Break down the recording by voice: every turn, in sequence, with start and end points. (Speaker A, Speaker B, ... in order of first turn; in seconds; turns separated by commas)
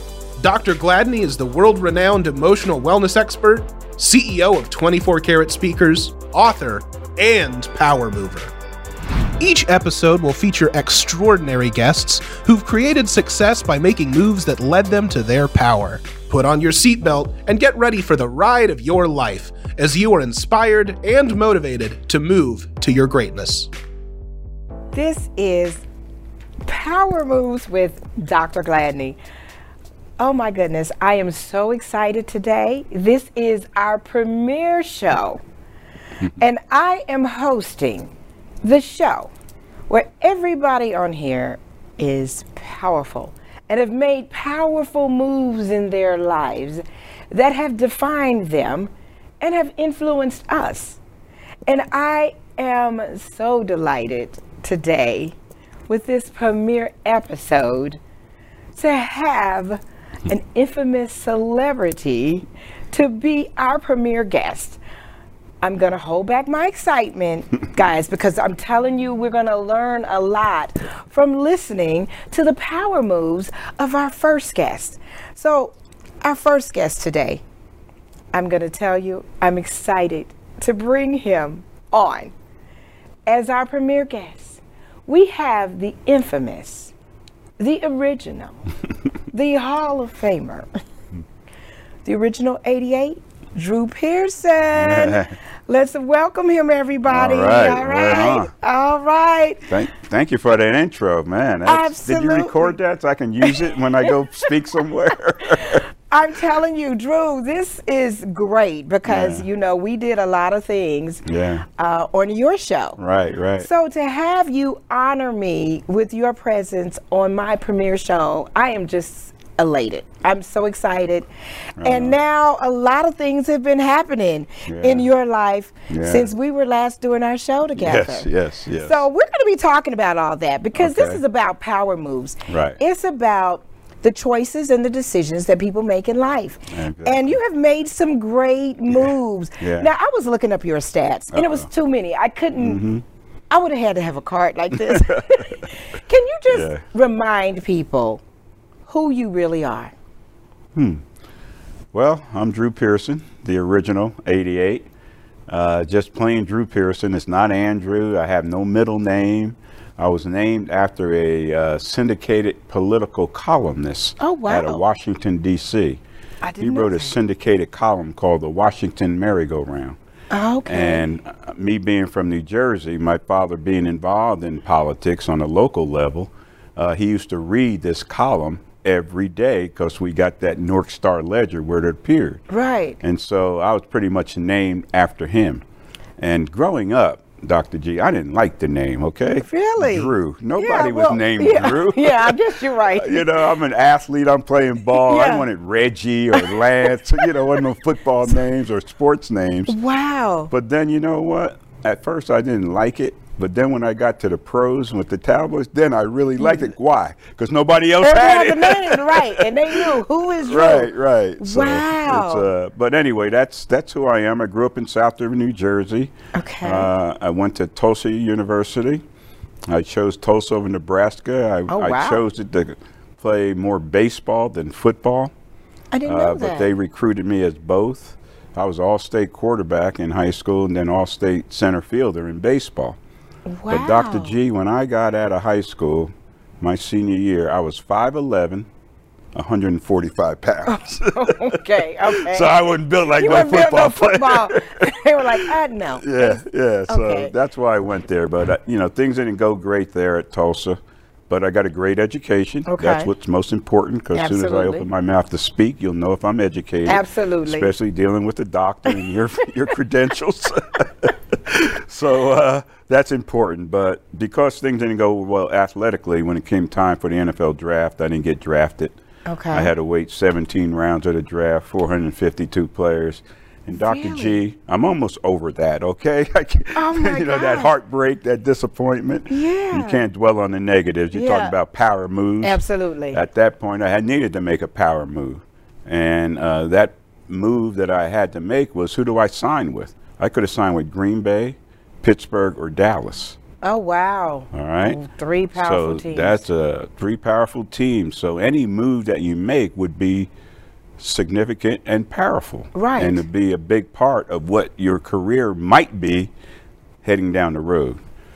Speaker A: 0.4-8.5, Speaker A: 9.4-23.7, Speaker B: 24.9-25.8, Speaker B: 26.6-29.2, Speaker B: 30.2-35.4, Speaker B: 36.3-38.1, Speaker B: 38.6-39.3, Speaker B: 39.9-51.0, Speaker B: 51.6-55.3, Speaker B: 55.9-58.0, Speaker B: 58.7-64.8, Speaker B: 65.6-77.4, Speaker B: 78.3-82.3, Speaker B: 83.2-86.9, Speaker B: 87.6-88.6, Speaker B: 89.3-90.7, Speaker B: 92.0-99.7, Speaker C: 94.8-95.3, Speaker C: 97.1-98.5, Speaker C: 99.7-105.8, Speaker B: 101.7-102.7, Speaker B: 106.1-111.2, Speaker C: 109.0-109.5, Speaker C: 111.2-111.6, Speaker B: 111.8-113.0, Speaker C: 113.0-113.7, Speaker B: 113.6-121.3, Speaker C: 121.8-122.2, Speaker B: 121.8-128.3, Speaker C: 124.7-125.1, Speaker C: 125.9-126.3, Speaker C: 127.8-129.0, Speaker B: 128.8-142.8, Speaker C: 130.7-131.2, Speaker C: 132.5-132.8, Speaker C: 136.7-137.4, Speaker C: 139.6-139.9, Speaker C: 141.3-141.7, Speaker C: 142.6-143.0, Speaker B: 143.5-148.2, Speaker C: 144.8-145.4, Speaker C: 146.5-146.8, Speaker B: 148.9-149.9, Speaker C: 150.7-151.0, Speaker C: 151.9-154.9, Speaker C: 155.5-166.0, Speaker B: 164.2-164.8, Speaker B: 166.4-167.1, Speaker C: 166.6-170.0, Speaker B: 170.3-171.0, Speaker C: 170.7-182.4, Speaker B: 182.5-183.0, Speaker C: 183.0-185.6, Speaker C: 186.2-192.4, Speaker B: 189.4-193.3, Speaker C: 192.9-199.7, Speaker B: 194.9-195.5, Speaker B: 196.3-196.6, Speaker B: 199.7-200.5, Speaker C: 200.5-209.9, Speaker B: 208.0-212.5, Speaker C: 210.4-219.0, Speaker B: 216.3-216.9, Speaker C: 219.7-225.3, Speaker B: 221.7-222.2, Speaker B: 225.9-226.7, Speaker C: 226.1-233.0, Speaker B: 233.5-234.4, Speaker C: 233.7-238.7, Speaker C: 239.3-250.8, Speaker B: 240.7-242.6, Speaker B: 243.1-247.3, Speaker C: 251.3-268.9, Speaker B: 252.7-253.1, Speaker B: 254.1-254.9, Speaker B: 256.9-257.7, Speaker B: 269.2-269.7, Speaker C: 269.5-282.6, Speaker B: 273.7-274.4, Speaker B: 276.7-277.7, Speaker B: 279.3-280.0, Speaker B: 281.1-281.5, Speaker B: 282.4-283.2, Speaker C: 283.1-293.4, Speaker B: 293.6-296.4, Speaker C: 294.5-295.0, Speaker C: 295.5-300.3, Speaker C: 301.0-306.3, Speaker B: 302.7-303.2, Speaker C: 307.0-308.0